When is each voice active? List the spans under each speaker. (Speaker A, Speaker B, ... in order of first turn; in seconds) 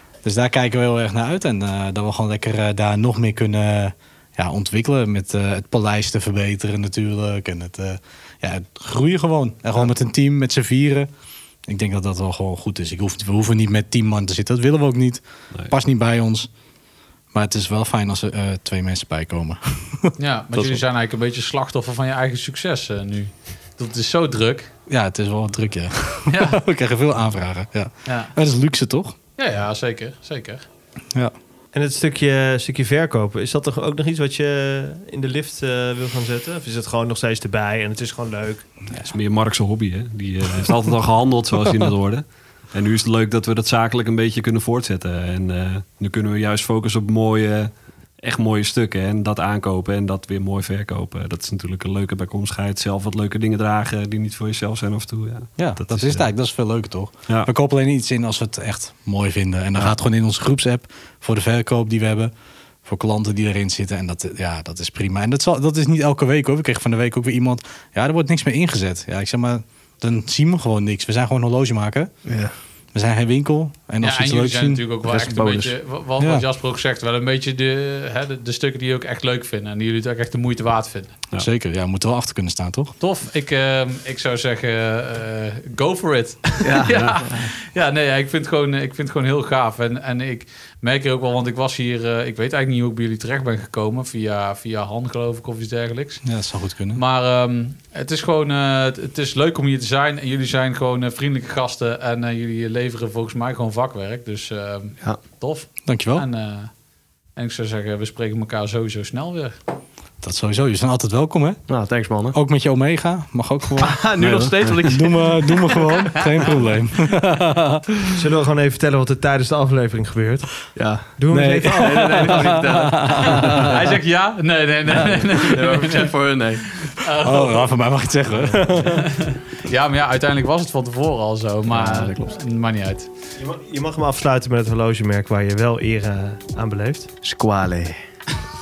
Speaker A: 0.2-11.1, 11.7-16.5, 17.3-20.8, 24.9-29.1, 55.6-62.3, 62.9-72.1, 72.9-74.8, 76.2-76.5, 81.4-83.0, 96.2-97.0, 105.9-106.3, 110.2-111.6, 112.3-118.0, 121.3-123.8, 127.1-128.9
Speaker B: 20.2-24.7, 26.3-26.6, 28.1-28.3, 29.4-30.6, 74.0-81.1, 83.0-96.2, 96.9-106.7, 107.4-109.6, 123.4-126.1, 126.8-127.7, 128.8-133.1
Speaker C: 31.7-38.8, 118.2-120.5, 121.2-122.8, 128.5-128.9, 133.4-137.1
Speaker D: 38.9-56.2, 86.8-87.2, 114.3-114.8
Speaker E: 72.3-72.5, 75.0-75.8, 86.6-87.5, 111.7-112.4, 113.8-116.1, 120.8-123.8, 124.9-126.7, 131.7-132.3, 137.2-138.0